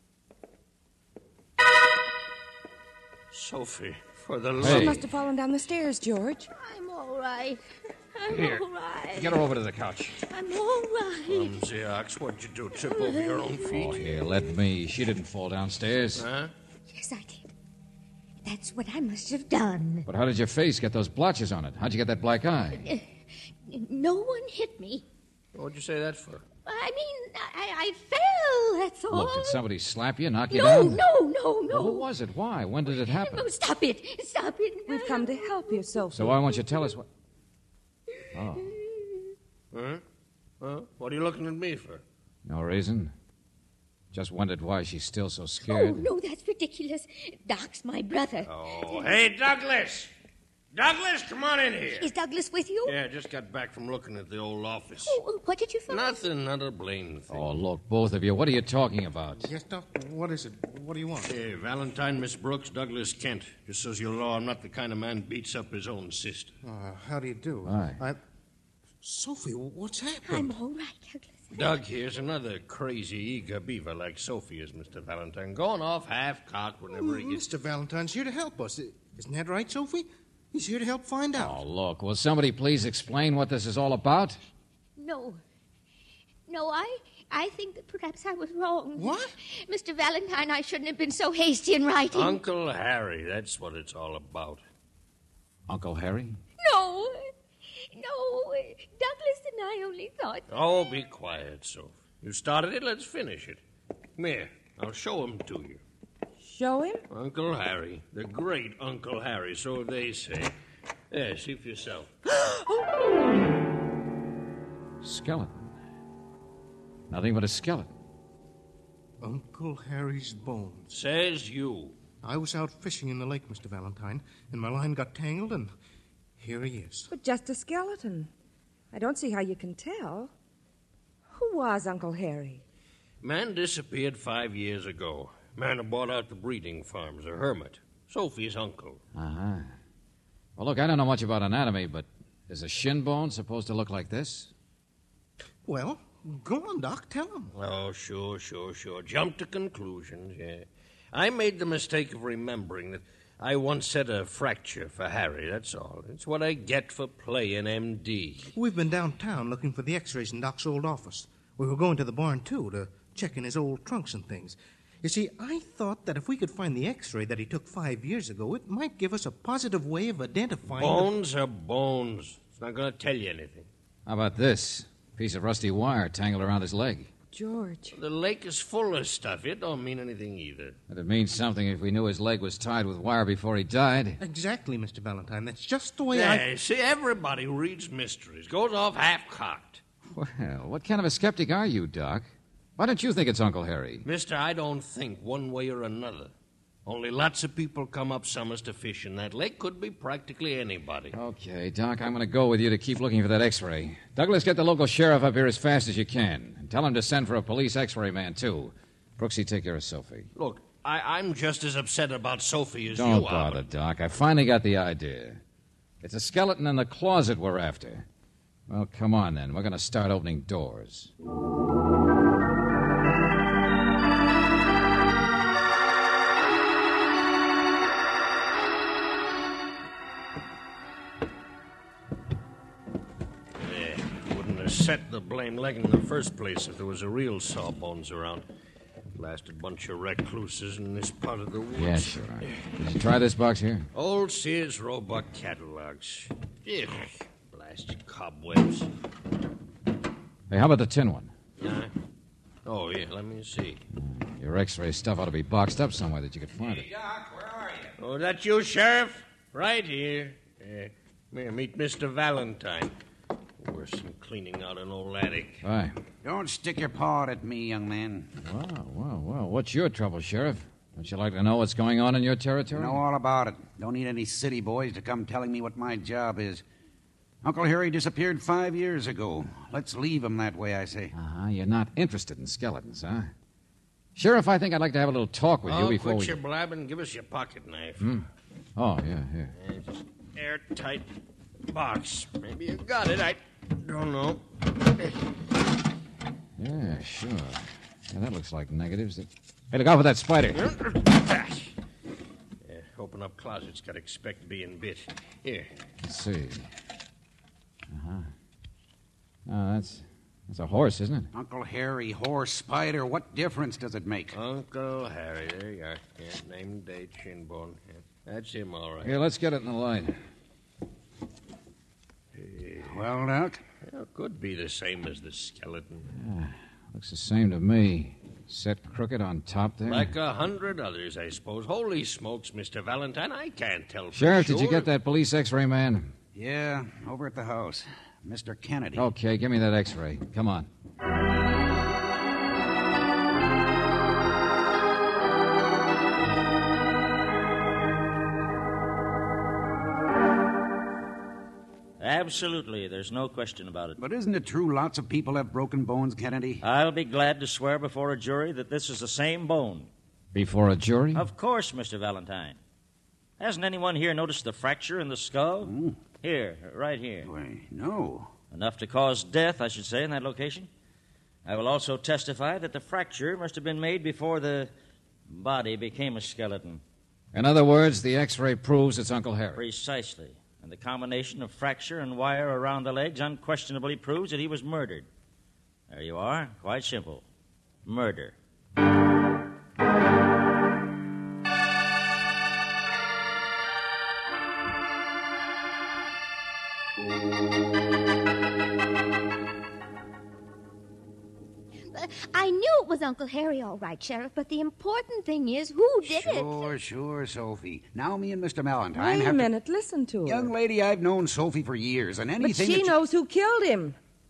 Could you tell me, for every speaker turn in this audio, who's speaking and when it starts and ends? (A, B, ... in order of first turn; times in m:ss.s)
0:03.3-0:05.0 A
0:04.6-0:05.1 B
0:04.6-0:06.5 C
0:06.6-0:07.6 D
0:08.1-0:09.4 D
0:08.3-0:08.6 B
0:09.2-0:10.2 B
0:10.3-0:11.6 D
0:11.3-0:14.0 A
0:12.9-0:13.7 D
0:13.7-0:16.3 B
0:16.2-0:16.5 A
0:16.9-0:17.5 D
0:18.4-0:20.1 D
0:20.1-0:22.8 B
0:22.8-0:23.1 D
0:23.7-0:25.0 D
0:25.6-0:26.4 A
0:26.6-0:29.6 D
0:29.1-0:31.0 B
0:30.5-0:32.1 D
0:31.7-0:33.5 B
0:32.9-0:36.0 D
0:34.9-0:36.4 C
0:36.1-0:37.1 B
0:38.3-0:38.7 B
0:38.4-0:39.3 D
0:39.7-0:40.0 A
0:40.6-0:42.0 A
0:42.5-0:43.1 B
0:44.1-0:46.1 B
0:45.6-0:49.1 D
0:48.5-0:50.1 A
0:50.7-0:52.1 A
0:52.0-0:53.0 D
0:52.8-0:55.2 A
0:55.1-0:56.2 D
0:55.9-0:57.5 A
0:57.3-0:59.5 B
0:59.4-1:01.3 E
1:01.3-1:06.6 A
1:06.6-1:08.2 E
1:07.6-1:08.0 B
1:09.0-1:10.6 E
1:10.3-1:11.6 D
1:11.5-1:17.4 A
1:16.9-1:21.6 E
1:21.4-1:24.4 B
1:25.0-1:25.4 D
1:26.5-1:32.4 D
1:29.0-1:29.3 E
1:32.1-1:34.6 A
1:35.7-1:36.4 B
1:36.6-1:37.3 D
1:37.9-1:40.4 D
1:40.5-1:43.6 A
1:44.2-1:45.8 A
1:46.4-1:47.0 C
1:47.1-1:50.5 A
1:51.1-1:52.1 A
1:55.0-1:55.6 B
1:57.1-1:57.9 B
1:59.2-2:00.9 E
2:00.9-2:02.0 A
2:02.2-2:05.7 E
2:06.4-2:07.1 E
2:07.1-2:08.3 C
2:08.9-2:10.3 C
2:11.3-2:12.6 C
2:13.2-2:19.0 A
2:19.2-2:19.7 B
2:20.6-2:24.5 B
2:25.7-2:27.5 E
2:27.6-2:38.5 A
2:38.6-2:51.1 E
2:50.8-2:53.7 A
2:54.1-2:57.1 B
2:57.3-2:58.0 C
2:57.9-3:00.8 A
3:00.9-3:04.2 B
3:04.2-3:06.4 E
3:06.1-3:09.8 A
3:10.1-3:12.3 B
3:12.8-3:14.0 B
3:14.0-3:16.3 A
3:16.9-3:21.2 A
3:21.1-3:30.3 B
3:30.4-3:33.6 A
3:32.9-3:35.4 B
3:36.0-3:38.1 B
3:38.7-3:41.1 B
3:53.6-3:58.5 A
3:59.2-4:02.6 A
4:01.8-4:03.9 B
4:03.9-4:08.9 A
4:10.5-4:11.3 B
4:11.6-4:11.9 A
4:12.6-4:13.8 A
4:14.0-4:16.9 B
4:16.9-4:17.9 F
4:18.0-4:22.9 A
4:23.6-4:25.6 A
4:25.6-4:26.0 B
4:26.2-4:28.3 F
4:28.4-4:33.0 B
4:32.7-4:36.6 F
4:37.4-4:41.1 F
4:41.2-4:43.3 B
4:44.2-4:46.4 B
4:45.7-4:48.1 A
4:48.0-4:49.5 B
4:49.6-4:51.1 A
4:51.7-4:55.2 A
4:56.6-5:00.7 B
5:00.5-5:01.7 A
5:02.6-5:05.7 A
5:06.0-5:06.7 B
5:07.9-5:08.3 B
5:09.5-5:11.3 B
5:11.3-5:14.4 F
5:14.3-5:19.2 A
5:19.0-5:20.2 B
5:22.4-5:23.0 A
5:22.8-5:23.6 F
5:23.8-5:26.1 A
5:26.2-5:30.1 B
5:29.8-5:34.9 A
5:34.1-5:36.1 B
5:36.3-5:39.1 F
5:39.0-5:40.7 B
5:52.0-5:54.0 G
5:54.0-5:56.6 F
5:56.6-5:59.9 G
6:00.3-6:01.3 B
6:01.2-6:02.6 G
6:03.4-6:07.3 G
6:05.6-6:06.0 F
6:07.2-6:08.3 F
6:08.5-6:10.7 G
6:11.4-6:14.7 G
6:15.3-6:16.8 G
6:17.3-6:19.6 B
6:19.6-6:25.1 G
6:25.9-6:27.2 G
6:27.8-6:28.4 G
6:41.9-6:46.7 D
6:46.0-6:49.5 F
6:48.9-6:50.5 C
6:50.2-6:53.0 F
6:52.4-6:54.0 C